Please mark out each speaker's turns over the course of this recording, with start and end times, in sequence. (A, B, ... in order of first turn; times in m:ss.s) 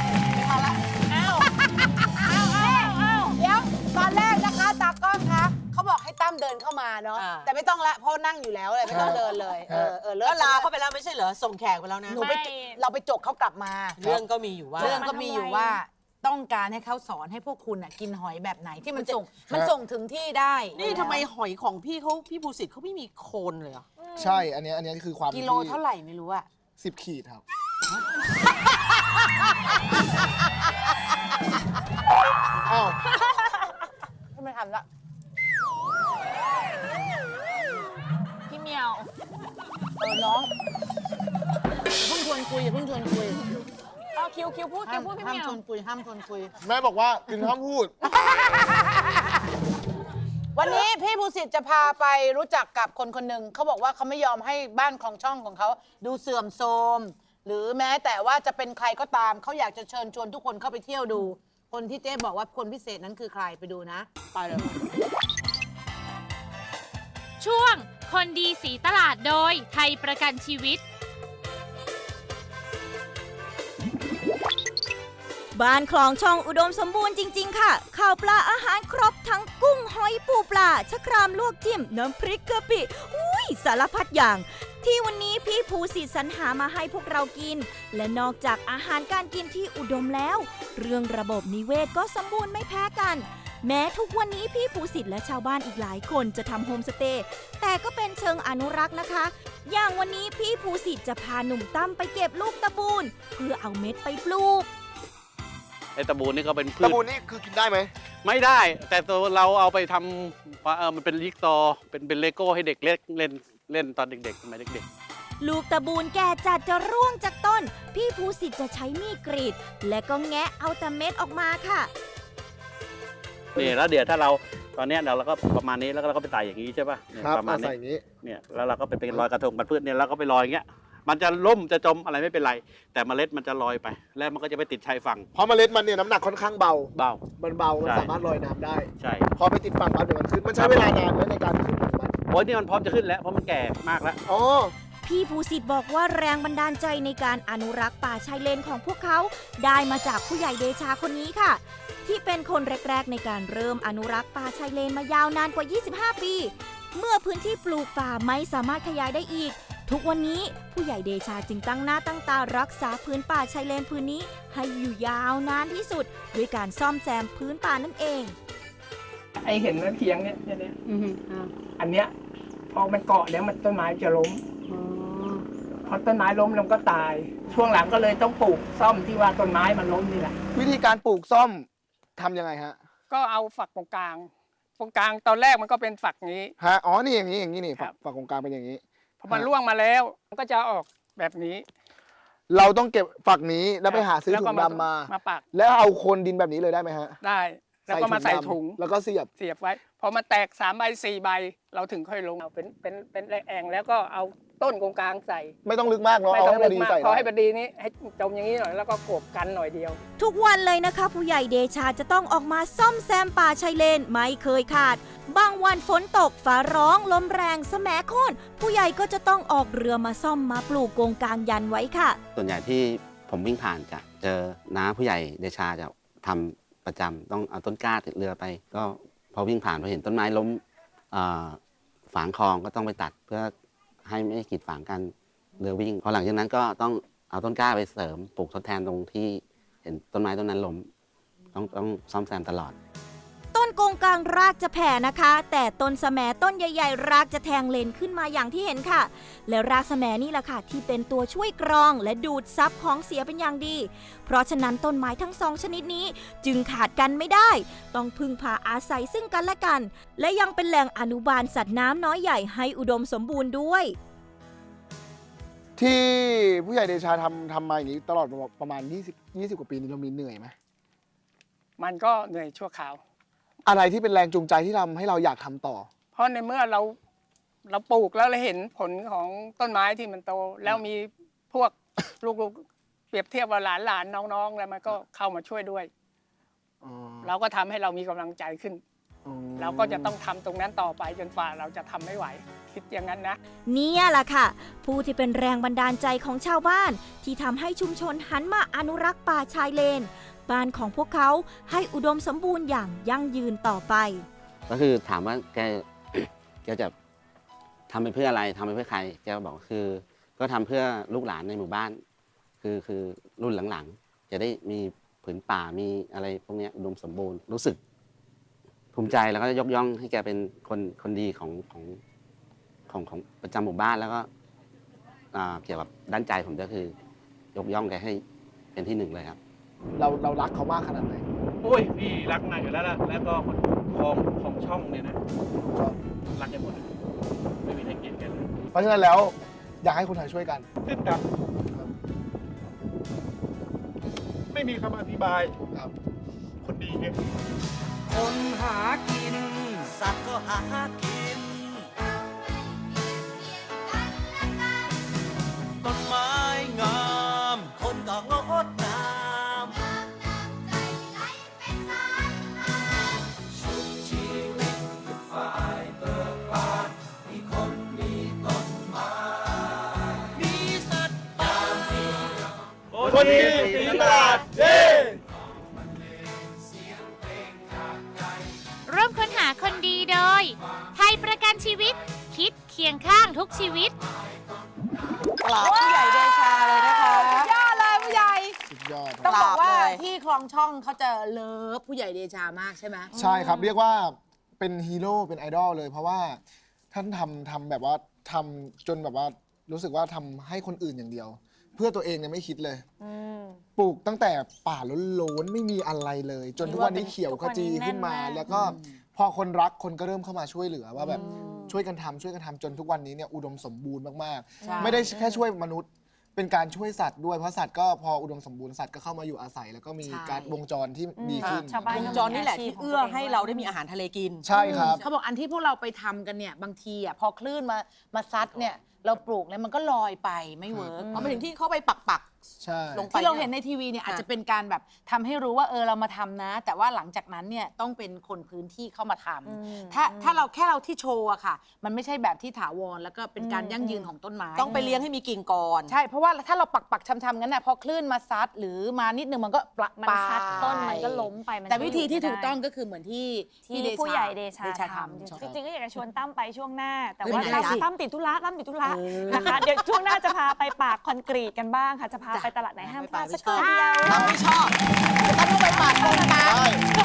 0:00.3-0:10.7 A
0:01.1-0:01.4 B
0:02.6-0:03.4 C
0:07.1-0:07.5 D
0:08.8-0:09.9 E
0:08.9-0:09.5 D
0:10.2-0:12.2 D
0:12.1-0:14.2 A
0:12.2-0:12.8 C
0:14.0-0:15.1 D
0:14.7-0:21.3 A
0:14.8-0:15.8 C
0:20.7-0:23.8 D
0:24.2-0:25.8 E
0:25.3-0:26.5 A
0:26.8-0:27.4 E
0:32.6-0:33.0 E
0:34.3-0:34.8 A
0:38.5-0:39.1 C
0:40.0-0:40.5 A
0:42.0-0:43.4 A
0:44.1-0:45.6 C
0:44.8-0:46.5 A
0:46.6-0:48.0 E
0:48.2-0:49.1 A
0:50.5-1:04.1 A
1:04.4-1:04.7 D
1:07.4-1:10.8 B
1:15.5-1:44.7 F
1:46.0-1:47.0 G
1:46.8-1:47.9 E
1:48.2-1:54.8 G
1:55.4-2:01.9 F
2:03.5-2:15.3 G
2:07.2-2:08.0 E
2:15.3-2:22.1 E
2:16.9-2:17.2 G
2:17.8-2:18.1 G
2:19.0-2:19.3 G
2:20.5-2:20.9 G
2:22.3-2:24.2 G
2:24.3-2:24.7 E
2:25.0-2:48.3 F
2:49.4-2:52.1 H
2:52.7-2:54.4 H
2:55.8-3:00.3 H
3:00.5-3:01.6 E
3:02.2-3:02.8 E
3:03.1-3:06.5 H
3:06.6-3:09.5 E
3:09.2-3:11.6 H
3:12.5-3:17.2 E
3:13.8-3:15.4 H
3:17.2-3:18.8 H
3:17.9-3:19.3 E
3:19.4-3:25.5 H
3:25.6-3:27.3 E
3:26.3-3:30.0 H
3:30.2-3:42.2 F
3:42.3-3:51.6 I
3:52.1-3:53.5 I
3:54.0-4:00.9 I
4:01.5-4:02.8 I
4:03.5-4:23.9 F
4:25.8-4:30.5 E
4:31.8-4:33.0 H
4:33.6-4:35.9 E
4:36.1-4:37.0 H
4:37.7-4:45.9 H
4:46.8-4:47.3 E
4:47.2-4:48.8 H
4:49.2-4:50.1 E
4:49.6-4:53.4 H
4:53.7-5:04.3 F
5:04.7-5:06.9 I
5:07.9-5:12.0 I
5:12.6-5:17.8 I
5:18.9-5:22.0 I
5:22.9-5:24.3 I
5:25.3-5:26.9 I
5:27.5-5:28.2 I
5:28.7-5:29.4 I
5:30.0-5:31.2 E
5:31.6-5:35.2 G
5:35.5-5:36.0 E
5:36.3-5:36.9 G
5:37.6-5:38.5 G
5:38.7-5:40.7 E
5:40.8-5:41.2 G
5:44.5-5:45.5 G
5:45.7-5:45.9 E
5:46.6-5:47.1 G
5:48.1-5:49.3 J
5:49.9-5:51.7 J
5:55.8-5:59.6 J
6:13.0-6:14.3 G
6:13.0-6:14.9 E
6:18.8-6:23.9 B
6:25.4-6:27.5 D
6:25.5-6:28.6 A
6:28.7-6:29.4 E
6:29.2-6:33.1 A
6:29.2-6:30.0 D
6:33.1-6:33.7 C
6:33.1-6:36.4 E
6:36.9-6:42.8 E
6:43.0-6:43.6 C
6:43.8-7:02.2 E
6:46.6-6:48.7 C
6:48.5-6:48.8 A
6:51.0-6:51.8 D
6:54.6-6:55.5 C
7:00.0-7:00.5 A
7:01.2-7:03.8 C
7:01.4-7:05.0 D
7:01.9-7:02.4 A
7:04.4-7:05.0 E
7:04.5-7:11.3 A
7:10.7-7:11.4 E
7:11.1-7:12.3 D
7:12.6-7:13.1 E
7:12.9-7:13.5 D
7:13.1-7:25.1 A
7:19.4-7:20.4 C
7:23.4-7:24.1 C
7:24.5-7:26.0 D
7:25.9-7:35.5 A
7:29.9-7:32.6 C
7:33.6-7:44.2 C
7:37.2-7:37.8 D
7:38.8-7:39.8 D
7:42.5-7:44.7 D
7:45.3-7:45.6 A
7:45.3-7:46.6 D
7:46.0-7:46.3 C
7:46.2-7:46.8 E